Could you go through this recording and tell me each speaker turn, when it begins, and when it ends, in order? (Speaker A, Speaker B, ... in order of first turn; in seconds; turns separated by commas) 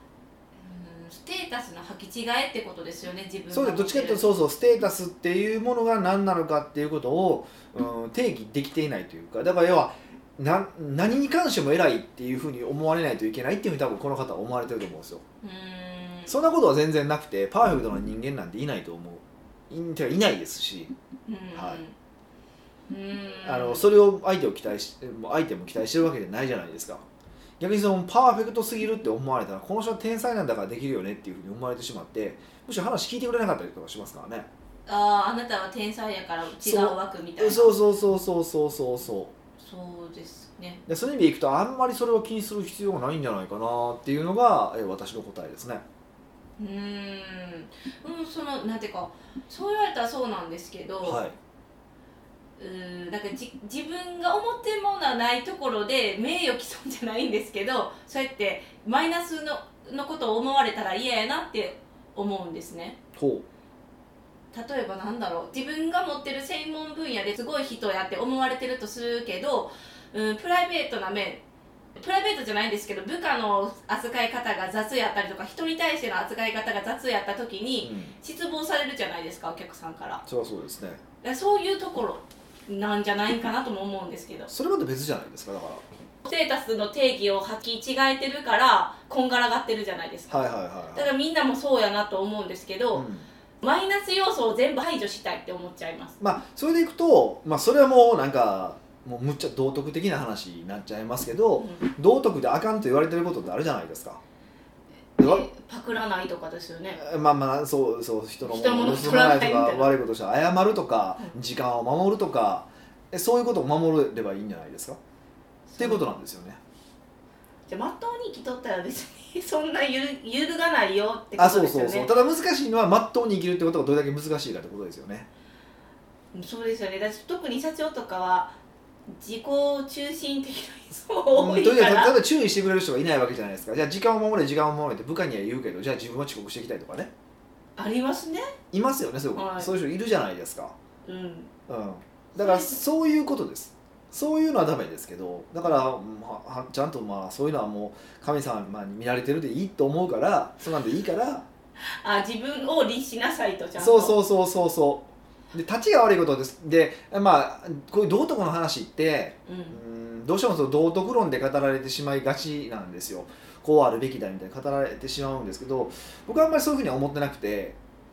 Speaker A: 0.6-4.2, Speaker B: 3.5-15.2, Speaker A: 15.4-16.3, Speaker B: 16.3-20.9, Speaker A: 21.3-21.9, Speaker A: 22.9-23.9, Speaker B: 23.4-27.0, Speaker B: 27.6-34.5, Speaker A: 34.9-37.7, Speaker B: 36.6-39.3, Speaker A: 39.6-40.8, Speaker B: 40.9-45.8, Speaker A: 46.6-51.2, Speaker B: 51.0-51.4, Speaker A: 52.6-63.0, Speaker B: 63.1-63.5, Speaker A: 64.5-71.4, Speaker A: 71.9-80.2, Speaker B: 77.8-78.1, Speaker B: 80.2-81.0, Speaker A: 81.2-84.5, Speaker B: 84.5-85.8, Speaker A: 86.2-93.0, Speaker B: 90.3-91.1, Speaker B: 92.9-93.3, Speaker A: 93.6-96.2, Speaker B: 96.2-104.2, Speaker A: 101.6-101.9, Speaker A: 105.2-107.0, Speaker B: 105.2-105.5, Speaker B: 106.9-115.0, Speaker A: 108.4-109.9, Speaker A: 115.7-116.1, Speaker B: 115.8-116.6, Speaker A: 117.7-122.1, Speaker B: 121.4-125.3, Speaker A: 126.3-132.2, Speaker B: 131.3-137.1, Speaker A: 137.8-138.5, Speaker B: 138.7-140.7, Speaker A: 139.3-139.7, Speaker A: 141.0-141.5, Speaker B: 141.7-151.4, Speaker A: 142.3-142.8, Speaker A: 151.8-154.2, Speaker B: 153.8-167.8, Speaker A: 159.5-159.8